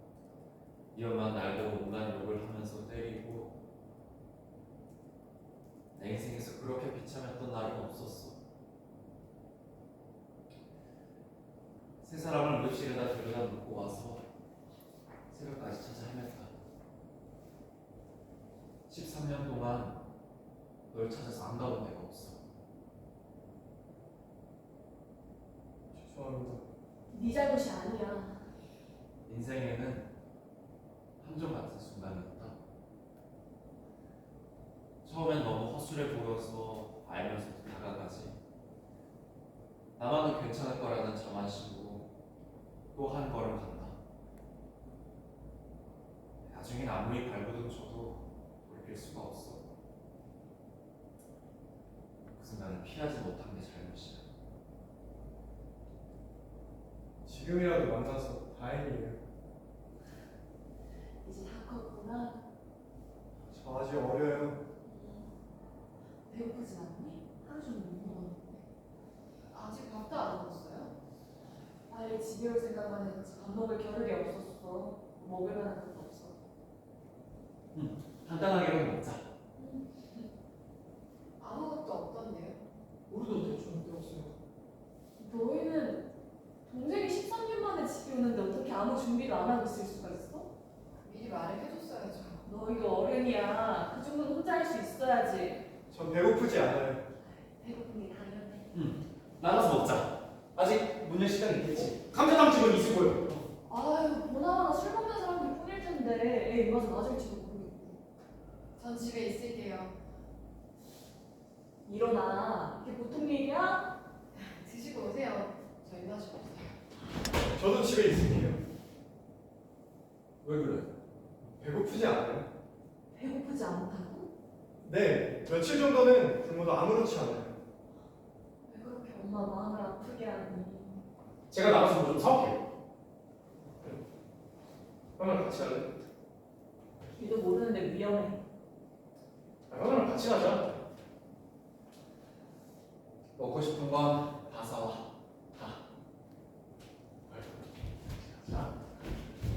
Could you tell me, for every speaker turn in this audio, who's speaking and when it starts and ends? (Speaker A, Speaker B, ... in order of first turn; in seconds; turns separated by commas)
Speaker A: 0.9-3.5, Speaker A: 5.9-8.4, Speaker A: 12.0-14.2, Speaker A: 15.3-16.5, Speaker A: 18.9-20.0, Speaker A: 20.9-22.4, Speaker B: 25.9-26.6, Speaker C: 27.1-28.4, Speaker A: 29.2-30.1, Speaker A: 31.2-32.5, Speaker A: 35.0-38.3, Speaker A: 40.0-42.1, Speaker A: 42.9-44.0, Speaker A: 46.4-49.6, Speaker A: 52.3-54.2, Speaker B: 57.2-59.2, Speaker C: 61.2-62.4, Speaker B: 63.5-64.6, Speaker C: 64.8-65.3, Speaker C: 66.3-68.6, Speaker D: 69.5-70.9, Speaker C: 71.9-76.4, Speaker A: 77.7-79.2, Speaker C: 79.6-80.3, Speaker D: 81.4-82.6, Speaker E: 83.1-84.3, Speaker C: 85.2-86.0, Speaker C: 86.7-90.5, Speaker D: 91.0-92.5, Speaker C: 92.4-95.6, Speaker B: 95.9-97.0, Speaker C: 97.2-98.7, Speaker A: 98.7-102.0, Speaker E: 101.8-103.3, Speaker C: 103.6-108.0, Speaker D: 108.8-109.9, Speaker C: 111.8-113.9, Speaker D: 114.3-116.8, Speaker B: 117.4-118.6, Speaker A: 120.4-120.9, Speaker B: 121.5-122.5, Speaker C: 123.1-124.3, Speaker B: 124.8-127.6, Speaker C: 128.6-131.0, Speaker E: 131.5-132.6, Speaker E: 135.2-135.9, Speaker C: 137.1-138.4, Speaker E: 139.7-140.8, Speaker A: 143.4-145.8, Speaker E: 147.3-147.6, Speaker E: 148.3-148.7